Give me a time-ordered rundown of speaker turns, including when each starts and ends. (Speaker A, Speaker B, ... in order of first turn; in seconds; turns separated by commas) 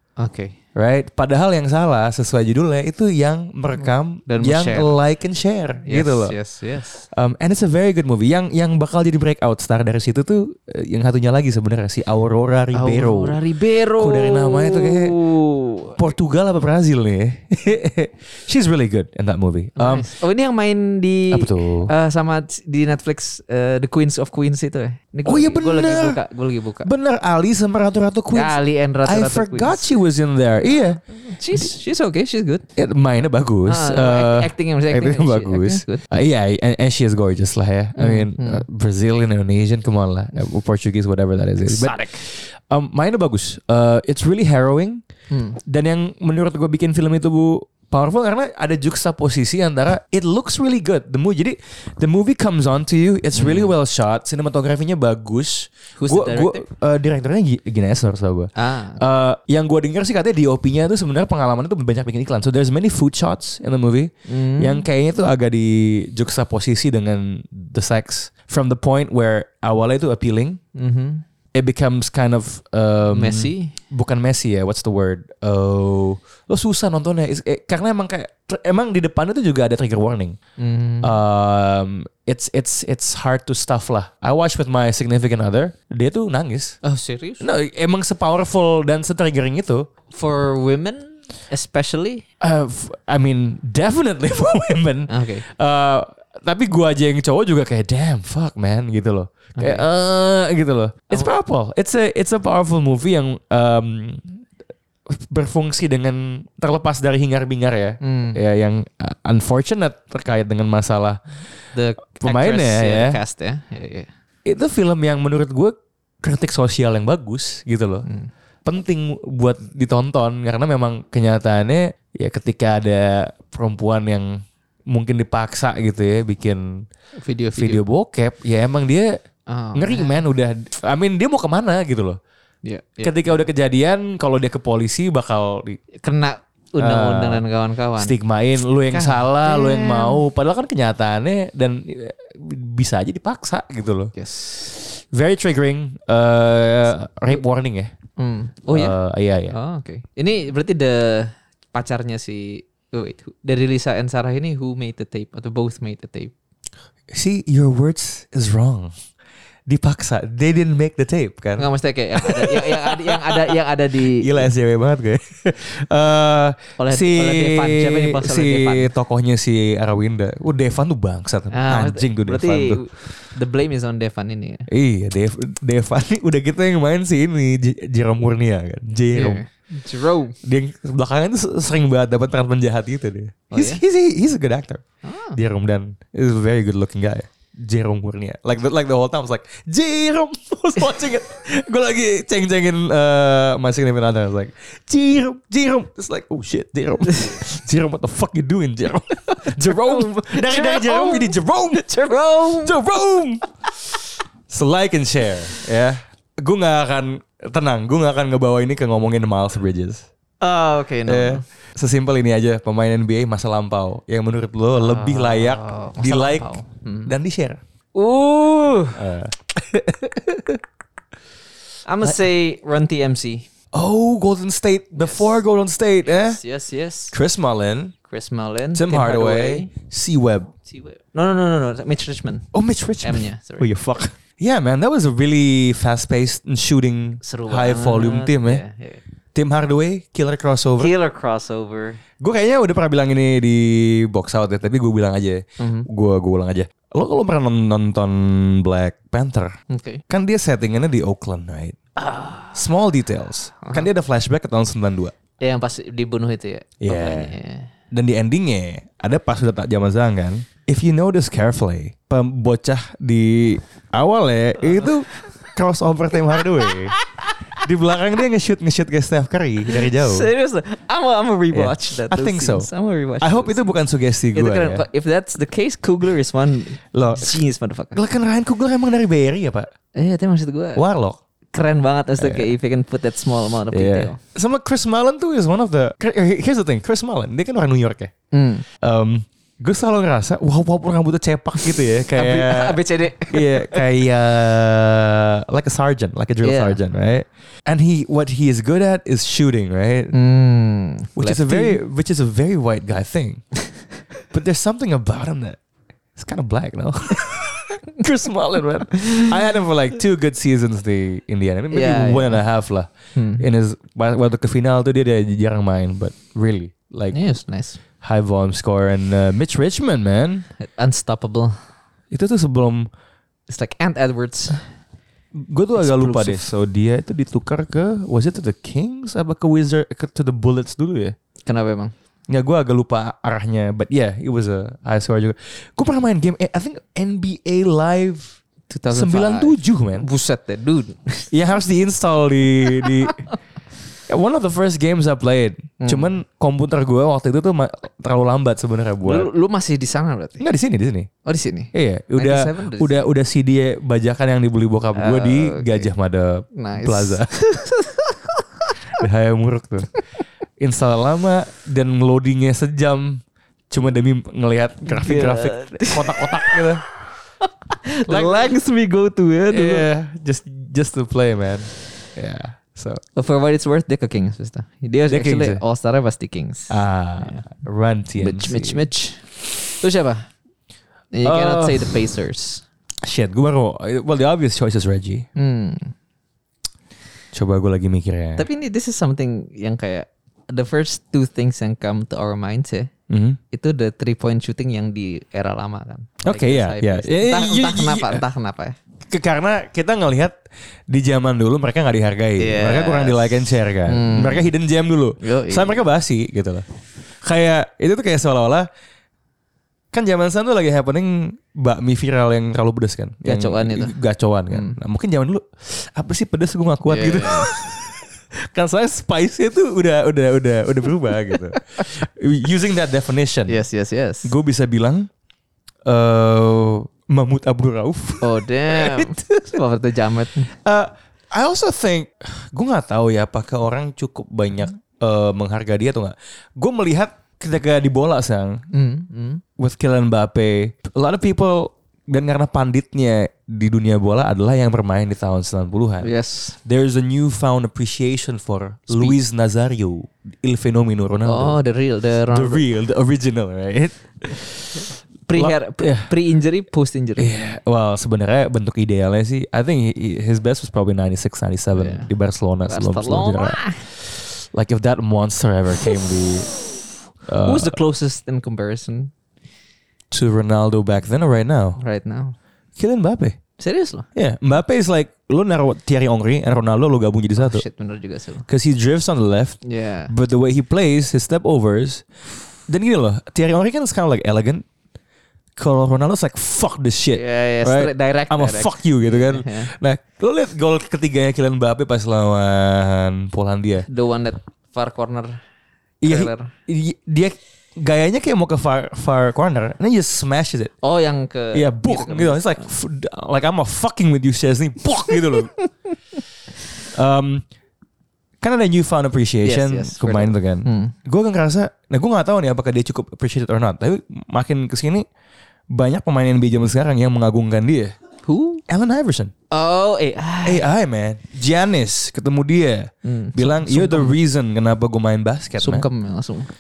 Speaker A: 0.2-0.6, Speaker B: 0.8-6.4, Speaker A: 4.3-4.9, Speaker A: 5.9-7.1, Speaker B: 7.1-13.4, Speaker A: 12.7-16.0, Speaker B: 14.0-15.2, Speaker B: 16.0-20.1, Speaker A: 19.8-26.9, Speaker B: 21.3-21.9, Speaker B: 25.2-26.2, Speaker B: 26.8-31.0, Speaker A: 28.3-29.9, Speaker A: 31.1-32.7, Speaker B: 32.8-45.0, Speaker A: 33.7-36.1, Speaker A: 38.0-38.6, Speaker A: 41.7-42.1, Speaker A: 45.3-45.6, Speaker B: 45.7-70.6, Speaker A: 53.4-53.7, Speaker A: 56.0-56.6, Speaker A: 58.5-59.0, Speaker A: 64.3-64.9, Speaker A: 70.8-71.2, Speaker B: 71.5-80.4, Speaker A: 73.1-73.8, Speaker A: 80.6-81.1, Speaker B: 81.0-86.8, Speaker A: 86.8-87.5, Speaker B: 87.4-89.9, Speaker A: 90.1-92.2, Speaker B: 92.4-104.4, Speaker A: 95.1-95.5, Speaker A: 99.6-99.9, Speaker B: 105.1-111.2, Speaker A: 108.0-108.4, Speaker A: 111.7-114.1, Speaker B: 112.2-113.2, Speaker B: 114.5-118.1, Speaker B: 118.7-126.9, Speaker A: 127.2-127.8, Speaker B: 127.5-129.2, Speaker A: 129.5-130.2, Speaker B: 129.7-132.2, Speaker A: 132.7-133.4, Speaker B: 133.0-135.8, Speaker A: 136.0-138.2, Speaker B: 136.8-137.4, Speaker B: 138.0-147.9, Speaker A: 138.9-140.2, Speaker A: 144.2-144.6, Speaker A: 148.2-148.9, Speaker B: 148.7-149.6, Speaker A: 149.5-156.3, Speaker B: 157.1-158.9, Speaker B: 159.7-172.8, Speaker A: 161.6-164.5, Speaker A: 166.8-168.9, Speaker A: 171.5-174.7, Speaker B: 174.7-179.4, Speaker A: 179.1-180.4, Speaker B: 180.4-184.8, Speaker A: 183.5-183.8, Speaker A: 185.0-185.4, Speaker B: 185.3-203.4, Speaker A: 197.1-197.4, Speaker A: 199.3-202.8, Speaker B: 204.5-210.1, Speaker A: 210.4-211.4, Speaker B: 211.1-217.6, Speaker A: 214.8-217.1, Speaker A: 217.9-219.0, Speaker B: 218.9-220.6, Speaker A: 221.8-223.5, Speaker B: 223.7-226.4, Speaker A: 225.0-225.4, Speaker A: 226.1-227.2, Speaker B: 227.1-227.9, Speaker A: 228.1-229.7, Speaker B: 228.7-230.5, Speaker A: 230.7-232.5, Speaker B: 232.5-238.6, Speaker A: 233.0-233.7, Speaker A: 237.2-239.0, Speaker B: 239.3-240.9, Speaker A: 240.8-242.0, Speaker B: 242.2-249.5, Speaker A: 245.6-245.9, Speaker A: 249.7-250.0, Speaker B: 250.1-251.8, Speaker A: 252.0-252.6, Speaker B: 252.5-255.1, Speaker A: 253.6-253.9, Speaker A: 255.4-257.7, Speaker B: 256.8-257.3, Speaker B: 257.9-266.9, Speaker A: 264.6-264.9, Speaker A: 266.4-267.6, Speaker B: 267.6-270.3, Speaker A: 269.7-273.6, Speaker B: 271.5-272.7, Speaker B: 273.2-274.8, Speaker A: 274.3-278.0, Speaker B: 276.9-277.4, Speaker B: 277.9-279.7, Speaker A: 280.0-280.8, Speaker B: 280.8-281.2, Speaker A: 281.5-284.2, Speaker B: 282.2-282.5, Speaker B: 283.7-288.1, Speaker A: 288.3-288.7, Speaker B: 288.8-300.1, Speaker A: 292.1-293.9, Speaker A: 296.4-296.8, Speaker A: 300.1-301.8, Speaker B: 301.2-303.4, Speaker B: 304.3-305.6, Speaker B: 306.2-317.2, Speaker A: 308.9-309.3, Speaker A: 311.7-312.4, Speaker A: 313.1-313.4, Speaker A: 317.1-317.8, Speaker B: 318.0-320.4, Speaker A: 320.6-321.6, Speaker B: 322.1-322.9, Speaker A: 323.5-324.6, Speaker B: 325.3-331.1, Speaker A: 325.8-326.5, Speaker A: 331.5-331.9, Speaker B: 332.3-338.4, Speaker A: 338.7-341.3, Speaker B: 338.9-340.1, Speaker B: 341.3-343.2, Speaker A: 342.8-343.3, Speaker B: 344.1-349.3, Speaker A: 345.8-346.1, Speaker A: 349.0-350.4, Speaker B: 350.4-351.1, Speaker A: 351.2-353.0, Speaker B: 351.7-357.3, Speaker A: 354.9-355.9, Speaker A: 356.5-358.7, Speaker B: 359.0-359.9, Speaker B: 360.6-366.8, Speaker A: 364.9-366.6, Speaker A: 367.7-369.9, Speaker B: 368.1-368.6, Speaker B: 369.5-373.0, Speaker A: 373.2-377.5, Speaker B: 375.1-375.6, Speaker B: 376.7-378.9, Speaker A: 378.2-380.3, Speaker A: 381.1-382.6, Speaker B: 381.2-381.9, Speaker B: 383.0-385.3, Speaker A: 385.4-385.9, Speaker B: 387.3-388.5, Speaker A: 388.4-392.9, Speaker B: 393.1-393.4, Speaker A: 393.5-398.8, Speaker B: 396.2-398.2, Speaker B: 399.1-400.4, Speaker B: 400.9-406.6, Speaker A: 402.4-404.5, Speaker A: 405.2-405.9, Speaker B: 407.2-408.7, Speaker B: 409.9-423.6, Speaker A: 413.2-413.9, Speaker A: 414.5-414.8, Speaker A: 416.9-417.5, Speaker A: 423.5-424.3, Speaker B: 424.2-425.1, Speaker B: 425.9-429.6, Speaker A: 428.2-430.5, Speaker B: 430.5-438.6, Speaker A: 438.7-439.4, Speaker B: 439.6-446.1, Speaker A: 446.0-446.6, Speaker B: 446.6-451.6, Speaker A: 448.9-449.2, Speaker A: 451.2-452.6, Speaker B: 452.3-456.1, Speaker A: 455.3-457.4, Speaker B: 457.2-466.5, Speaker A: 461.8-462.1, Speaker A: 462.7-463.8, Speaker B: 467.3-467.8, Speaker A: 467.4-469.1, Speaker B: 470.1-471.8, Speaker A: 471.8-472.4, Speaker B: 472.8-473.4, Speaker A: 473.6-474.1, Speaker B: 474.1-477.6, Speaker A: 477.4-478.5, Speaker B: 478.5-482.0, Speaker A: 479.6-480.1, Speaker B: 482.7-484.6, Speaker B: 485.6-493.9, Speaker A: 487.1-489.7, Speaker A: 493.9-495.4, Speaker B: 496.0-500.7, Speaker A: 496.0-496.5, Speaker A: 500.8-502.7, Speaker B: 501.5-505.5, Speaker B: 506.9-507.4, Speaker B: 508.4-515.0, Speaker A: 509.4-510.9, Speaker B: 515.7-517.9, Speaker A: 518.3-518.6, Speaker B: 518.7-519.3, Speaker A: 519.5-520.7, Speaker B: 520.5-525.9, Speaker A: 523.0-524.2, Speaker A: 525.6-526.5